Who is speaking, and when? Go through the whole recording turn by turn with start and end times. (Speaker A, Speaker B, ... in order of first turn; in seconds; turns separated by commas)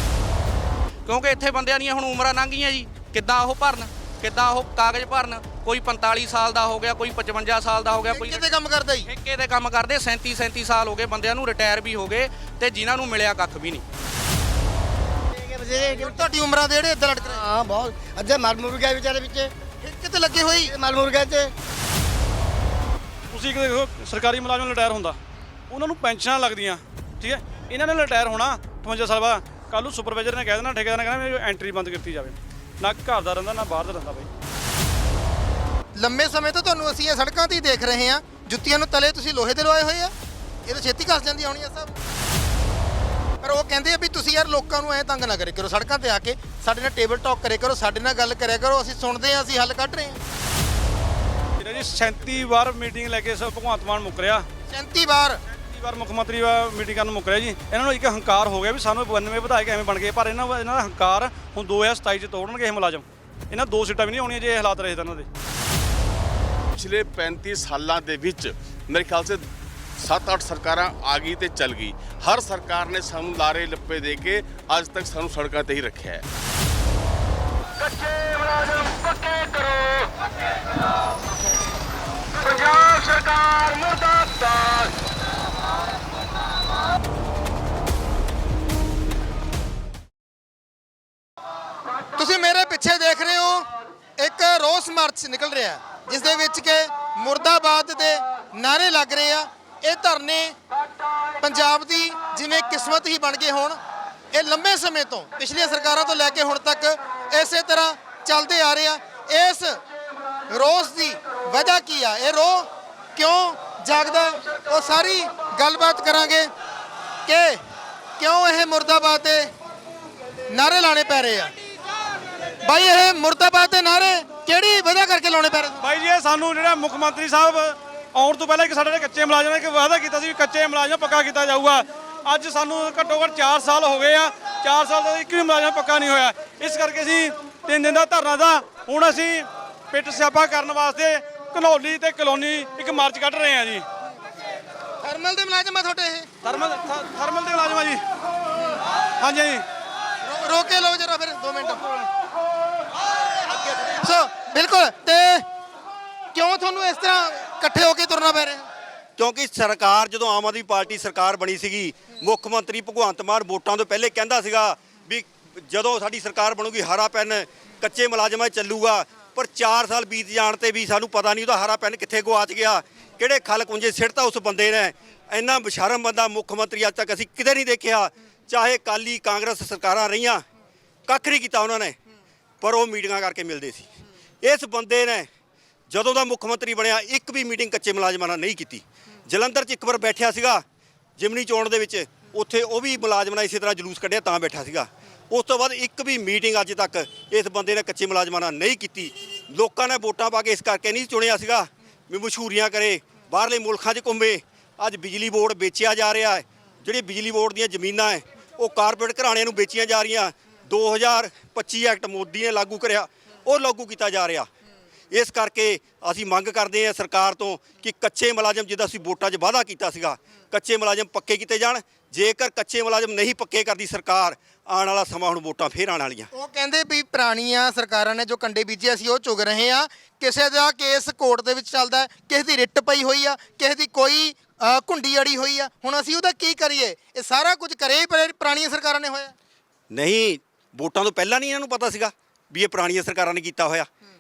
Speaker A: 1.1-8.5, Speaker B: 8.1-9.1, Speaker A: 9.1-13.8, Speaker C: 15.3-16.3, Speaker B: 15.8-17.4, Speaker C: 17.2-19.5, Speaker B: 19.8-20.7, Speaker C: 20.6-21.5, Speaker D: 23.3-25.2, Speaker D: 25.7-34.3, Speaker B: 36.0-40.1, Speaker B: 40.7-41.9, Speaker B: 43.4-50.2, Speaker D: 51.6-54.5, Speaker B: 54.7-55.4, Speaker D: 55.5-65.3, Speaker E: 66.8-69.4, Speaker E: 70.0-76.2, Speaker B: 92.2-100.6, Speaker B: 101.4-103.8, Speaker B: 104.3-109.8, Speaker B: 110.5-116.5, Speaker B: 117.3-117.6, Speaker B: 118.2-119.5, Speaker B: 120.5-121.5, Speaker B: 122.6-125.8, Speaker D: 125.8-143.8, Speaker B: 145.0-146.3, Speaker D: 146.4-148.0, Speaker B: 148.5-148.8, Speaker D: 149.2-149.7, Speaker B: 150.2-152.0, Speaker B: 153.6-155.5, Speaker B: 156.3-158.7, Speaker F: 159.2-180.4, Speaker F: 181.1-182.0, Speaker F: 182.6-183.9, Speaker F: 184.4-185.3, Speaker F: 185.9-190.6, Speaker F: 191.2-214.5, Speaker F: 215.1-226.3, Speaker B: 226.3-239.3, Speaker F: 239.9-243.9